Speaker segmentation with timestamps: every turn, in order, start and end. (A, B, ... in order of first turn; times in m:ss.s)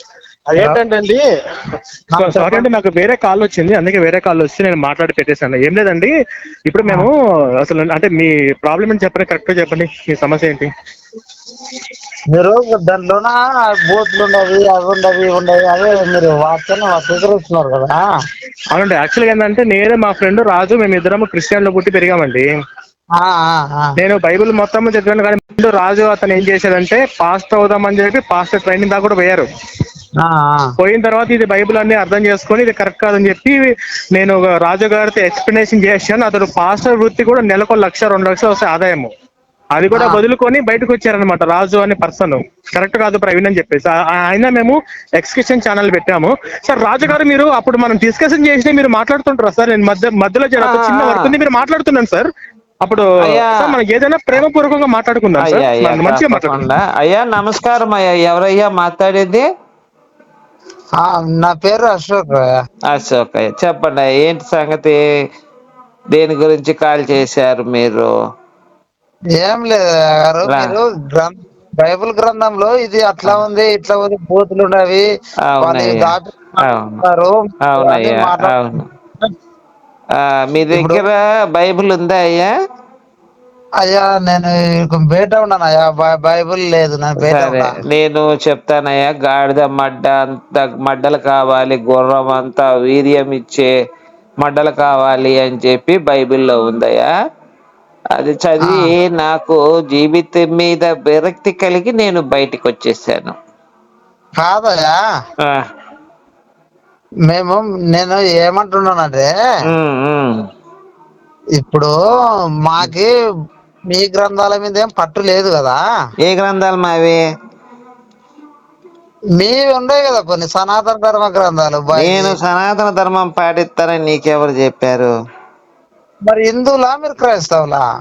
0:00.5-0:01.2 A
0:00.6-0:00.8 B
0:02.1-0:02.6 B
0:02.2-0:06.1 A
0:06.7-0:10.7 A
0:12.3-0:18.0 B
0:18.7-0:22.5 A
0:23.2-0:24.0 B
0:24.0-0:29.5 A
0:30.2-0:30.7 B
0:30.8-0:39.1 A
0:39.8-0:52.3 A
0:39.9-0:40.2 B
0:50.6-0:51.4 C
0:52.8-0:56.7 A
0:53.2-0:53.8 C
0:55.4-0:59.4 C
1:01.0-1:02.5 B
1:02.9-1:05.0 C
1:06.1-1:08.1 C
1:09.4-1:15.0 B
1:10.5-1:10.7 C
1:15.5-1:16.1 C
1:15.6-1:18.6 B
1:16.6-1:17.0 C
1:17.6-1:18.9 C
1:20.2-1:22.5 C
1:20.7-1:21.0 B
1:23.8-1:27.8 B
1:27.2-1:33.7 C
1:34.4-1:37.1 C
1:38.2-1:43.4 C
1:38.6-1:38.9 B
1:44.4-1:45.0 B
1:45.4-1:45.6 C
1:47.3-1:49.3 B
1:49.7-1:50.4 C
1:51.6-1:51.9 B
1:52.6-1:53.1 B
1:53.9-1:55.8 B
1:56.2-1:57.2 C
1:59.4-2:02.4 B
2:02.0-2:05.1 C
2:06.2-2:07.8 B